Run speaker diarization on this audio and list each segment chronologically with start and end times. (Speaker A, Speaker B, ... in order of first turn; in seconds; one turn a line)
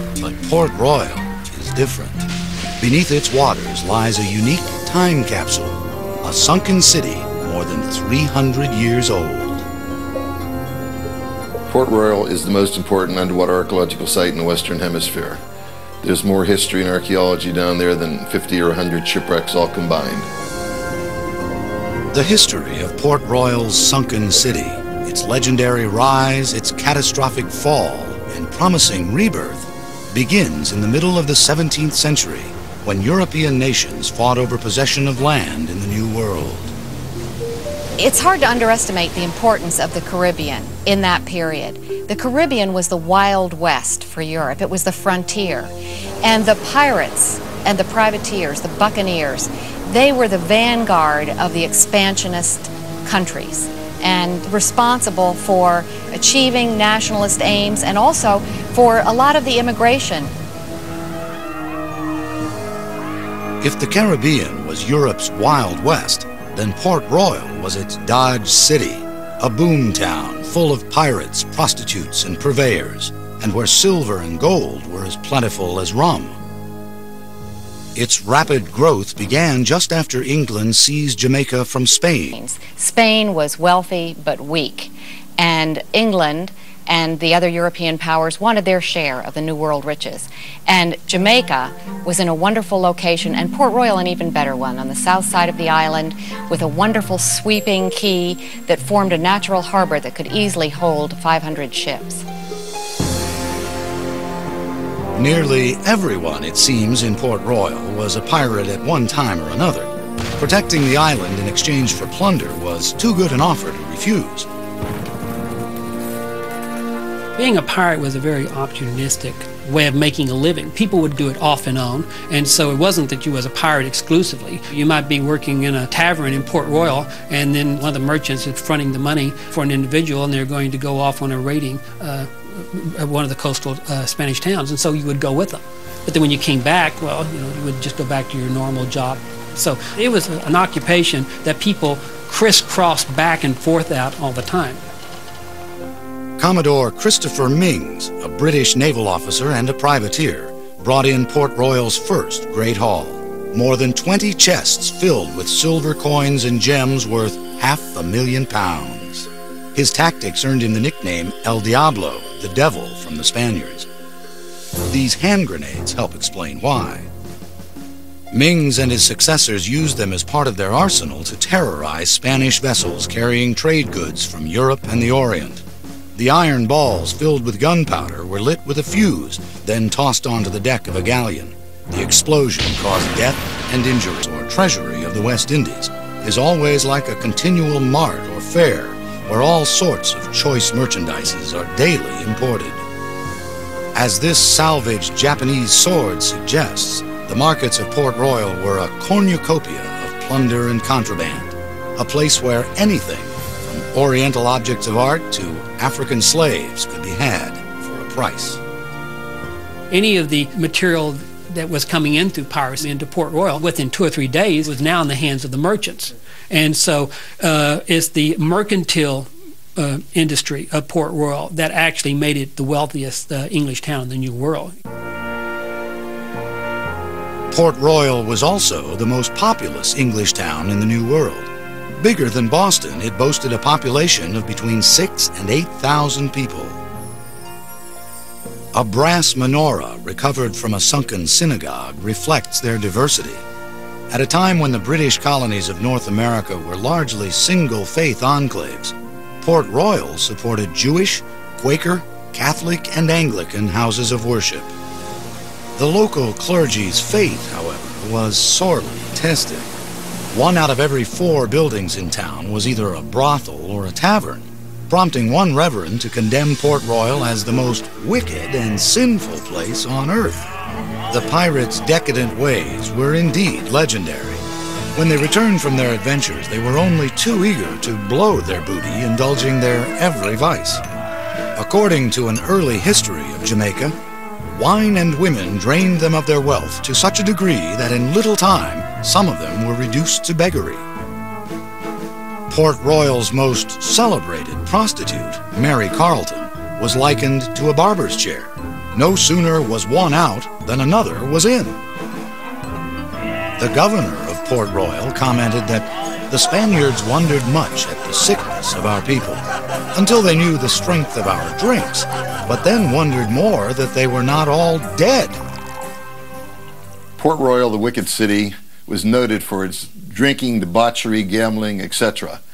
Speaker A: 0.2-9.7
Speaker B: 11.7-15.4
Speaker B: 16.0-20.3
Speaker A: 22.1-36.8
Speaker C: 38.0-60.3
Speaker A: 63.6-76.4
Speaker A: 78.0-82.4
Speaker C: 82.3-102.2
Speaker A: 105.2-114.5
Speaker D: 117.4-144.8
Speaker A: 146.4-163.9
Speaker A: 164.9-167.1
Speaker A: 168.3-175.6
Speaker A: 176.2-192.8
Speaker A: 193.9-208.6
Speaker D: 209.9-224.8
Speaker A: 227.5-236.8
Speaker A: 238.7-243.5
Speaker A: 244.1-254.7
Speaker A: 255.8-259.7
Speaker A: 260.3-270.5
Speaker A: 271.1-280.8
Speaker A: 281.6-290.9
Speaker A: 292.5-301.8
Speaker A: 303.6-315.4
Speaker B: 317.2-322.4